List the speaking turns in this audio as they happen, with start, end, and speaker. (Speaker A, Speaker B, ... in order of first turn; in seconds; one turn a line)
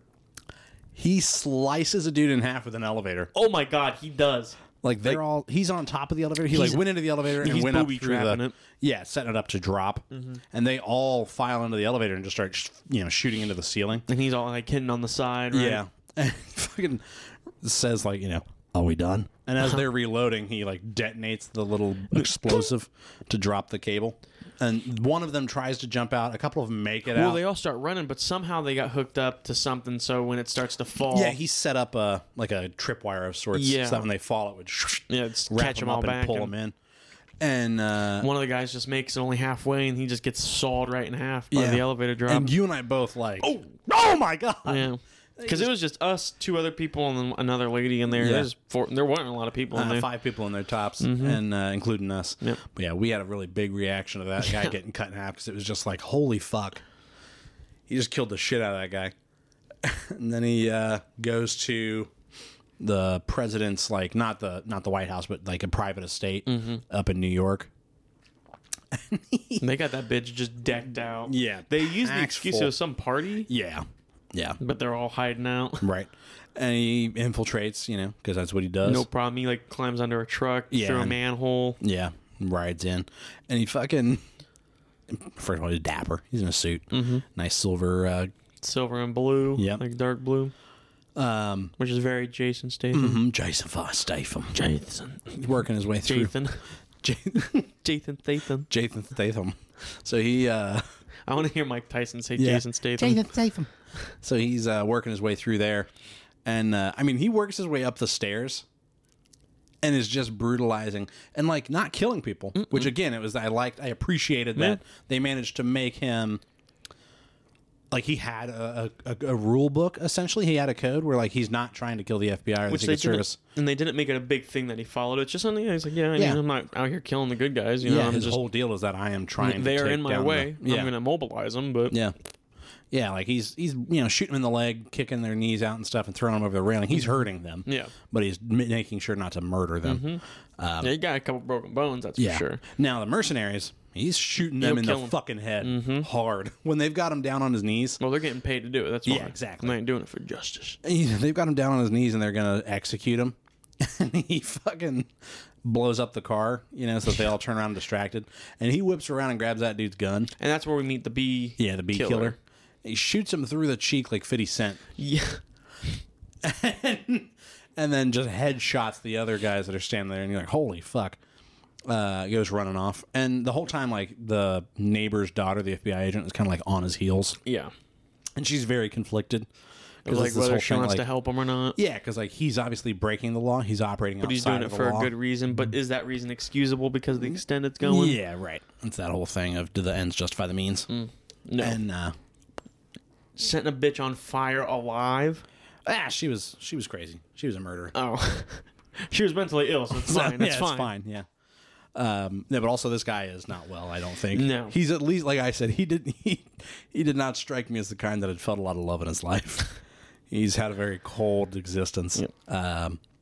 Speaker A: 0.9-3.3
Speaker B: 3.3-5.2
Speaker A: 4.8-14.1
Speaker B: 6.5-8.6
Speaker B: 10.1-10.4
Speaker B: 14.1-15.8
Speaker A: 15.5-27.4
Speaker B: 27.1-31.4
Speaker A: 31.0-36.7
Speaker B: 33.5-34.1
Speaker B: 35.1-36.5
Speaker A: 37.4-38.3
Speaker B: 38.2-42.5
Speaker A: 41.5-45.7
Speaker B: 44.6-50.1
Speaker A: 48.2-48.5
Speaker A: 49.7-56.8
Speaker B: 51.0-51.4
Speaker B: 54.4-54.7
Speaker A: 57.9-59.1
Speaker A: 59.8-62.1
Speaker A: 62.8-67.7
Speaker B: 66.5-66.8
Speaker A: 68.9-69.6
Speaker B: 69.6-73.5
Speaker A: 71.2-72.7
Speaker A: 73.5-74.6
Speaker B: 74.6-75.9
Speaker A: 75.8-79.0
Speaker B: 78.8-81.8
Speaker A: 80.7-81.2
Speaker A: 81.8-84.2
Speaker A: 85.1-88.3
Speaker B: 86.9-87.2
Speaker B: 88.6-90.5
Speaker A: 89.5-89.8
Speaker A: 91.2-91.7
Speaker B: 91.8-93.2
Speaker A: 92.9-94.6
Speaker B: 94.5-95.5
Speaker A: 95.3-96.3
Speaker B: 96.0-96.6
Speaker A: 97.0-97.7
Speaker B: 97.8-98.7
Speaker A: 98.7-100.8
Speaker B: 101.3-103.3
Speaker A: 102.4-105.9
Speaker A: 106.4-108.7
Speaker A: 109.8-116.4
Speaker B: 112.5-112.9
Speaker A: 117.9-123.4
Speaker B: 122.7-128.4
Speaker A: 126.1-126.4
Speaker A: 127.8-130.9
Speaker B: 129.4-132.0
Speaker A: 131.9-132.1
Speaker A: 132.9-140.9
Speaker B: 136.9-137.9
Speaker B: 139.8-140.2
Speaker B: 140.8-142.6
Speaker A: 142.2-148.0
Speaker B: 144.6-146.1
Speaker B: 148.0-150.8
Speaker A: 149.1-149.8
Speaker A: 150.8-155.1
Speaker A: 155.6-160.3
Speaker B: 160.4-162.3
Speaker A: 161.6-164.8
Speaker B: 165.0-165.4
Speaker A: 166.4-171.2
Speaker A: 171.9-177.4
Speaker B: 177.4-177.7
Speaker A: 178.3-179.5
Speaker A: 180.0-181.0
Speaker B: 180.0-181.8
Speaker A: 181.8-185.1
Speaker B: 184.2-188.2
Speaker A: 187.8-190.9
Speaker B: 190.9-191.8
Speaker A: 191.6-192.1
Speaker B: 193.3-195.4
Speaker A: 195.8-197.9
Speaker B: 197.9-200.9
Speaker A: 199.9-201.2
Speaker A: 201.9-209.7
Speaker B: 204.3-204.7
Speaker A: 210.3-213.0